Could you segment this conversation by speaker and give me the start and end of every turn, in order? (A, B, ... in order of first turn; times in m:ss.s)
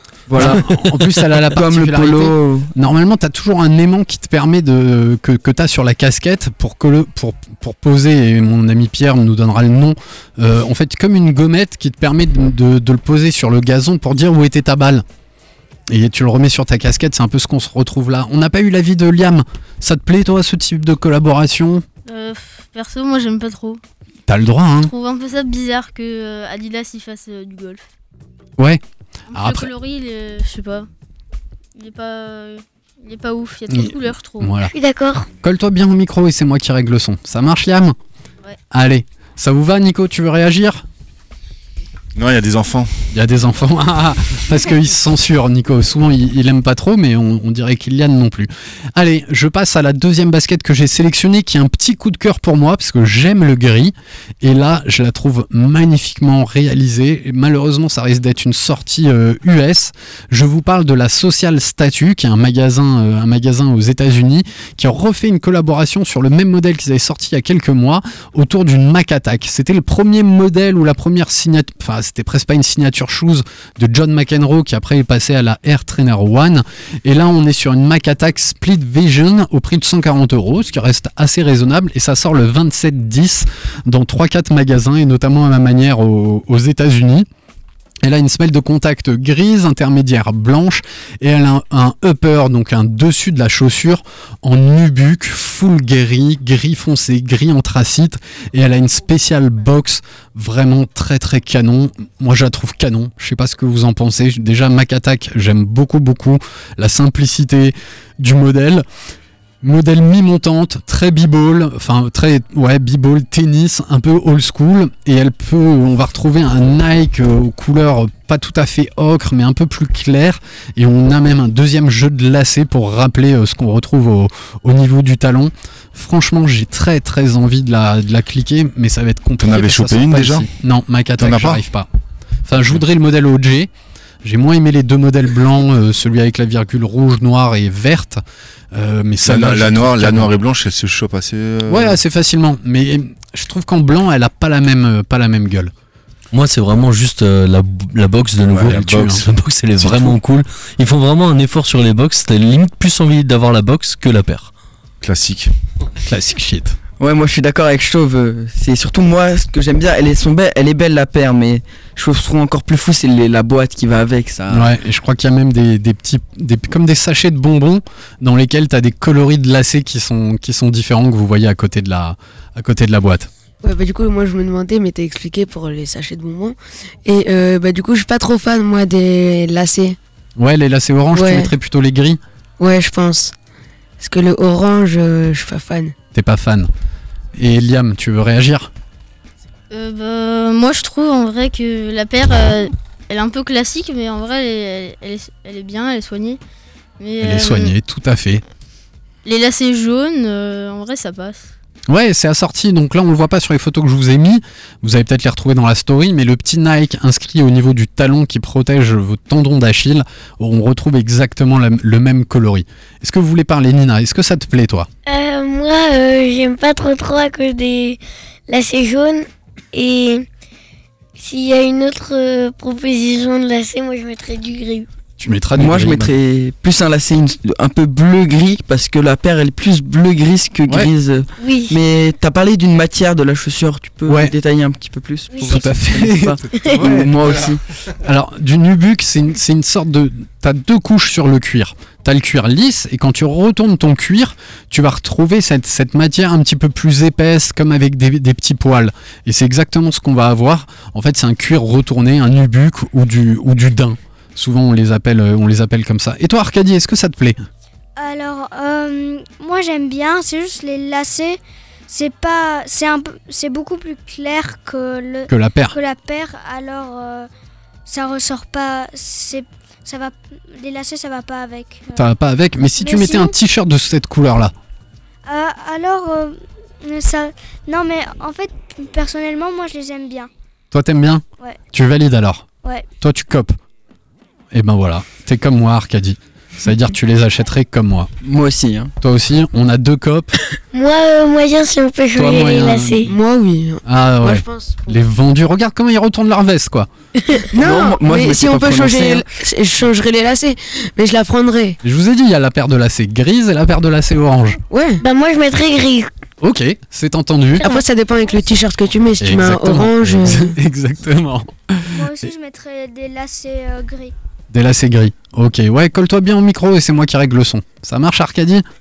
0:00.3-0:02.7 A
0:00.3-0:15.0 B
0:15.9-0:21.8 B
0:22.1-0:23.8 C
0:24.3-0:24.9 B
0:24.8-0:27.8 C
0:29.3-0:30.9 C
0:29.3-0:29.7 B
0:31.8-0:34.6 C
0:33.7-0:34.7 B
0:34.7-0:35.3 D
0:35.4-0:38.0 B
0:38.7-0:40.8 B
0:42.2-0:42.9 E
0:43.1-1:27.3 B
1:28.0-1:48.8 B
1:49.6-2:11.9 B
2:09.4-2:10.5 E
2:11.2-2:11.6 E
2:12.5-2:13.7 B
2:14.2-2:18.2 B
2:18.7-2:20.3 B
2:19.2-2:22.0 E
2:21.7-2:25.7 B
2:26.3-2:34.5 F
2:28.5-2:29.2 E
2:28.6-2:29.3 B
2:29.8-2:30.1 E
2:35.0-2:35.5 E
2:36.0-2:36.8 B
2:37.0-2:44.8 A
2:44.5-2:53.3 B
2:53.6-3:00.0 G
3:00.4-3:02.2 B
3:01.1-3:01.5 G
3:02.6-3:03.3 G
3:04.0-3:05.9 G
3:06.1-3:06.7 B
3:07.4-3:08.7 B
3:09.7-3:16.4 C
3:17.0-3:17.8 C
3:17.2-3:18.4 B
3:19.2-3:21.5 C
3:21.9-3:34.9 B
3:35.1-3:40.3 D
3:41.2-3:44.9 D
3:45.2-3:46.1 B
3:45.6-3:57.6 A
3:51.4-3:51.8 D
3:54.1-3:54.3 B
3:55.4-3:57.2 B
3:58.0-4:17.4 B
4:18.0-4:27.3 H
4:25.3-4:25.8 B
4:27.9-4:32.0 H
4:32.0-4:34.5 B
4:32.8-4:33.4 H
4:35.3-4:40.3 H
4:40.7-4:42.5 B
4:43.0-4:43.6 B
4:44.5-4:48.1 B
4:48.2-4:48.9 A
4:49.0-4:50.4 B
4:50.7-4:53.1 D
4:52.2-4:53.2 B
4:53.1-4:54.9 G
4:53.8-4:56.9 B
4:57.5-5:01.8 G
4:57.5-4:59.3 A
5:01.8-5:04.6 B
5:04.7-5:05.0 G
5:05.0-5:06.1 D
5:06.4-5:07.7 B
5:07.6-5:10.6 G
5:09.2-5:12.3 B
5:11.9-5:14.1 H
5:14.5-5:18.6 B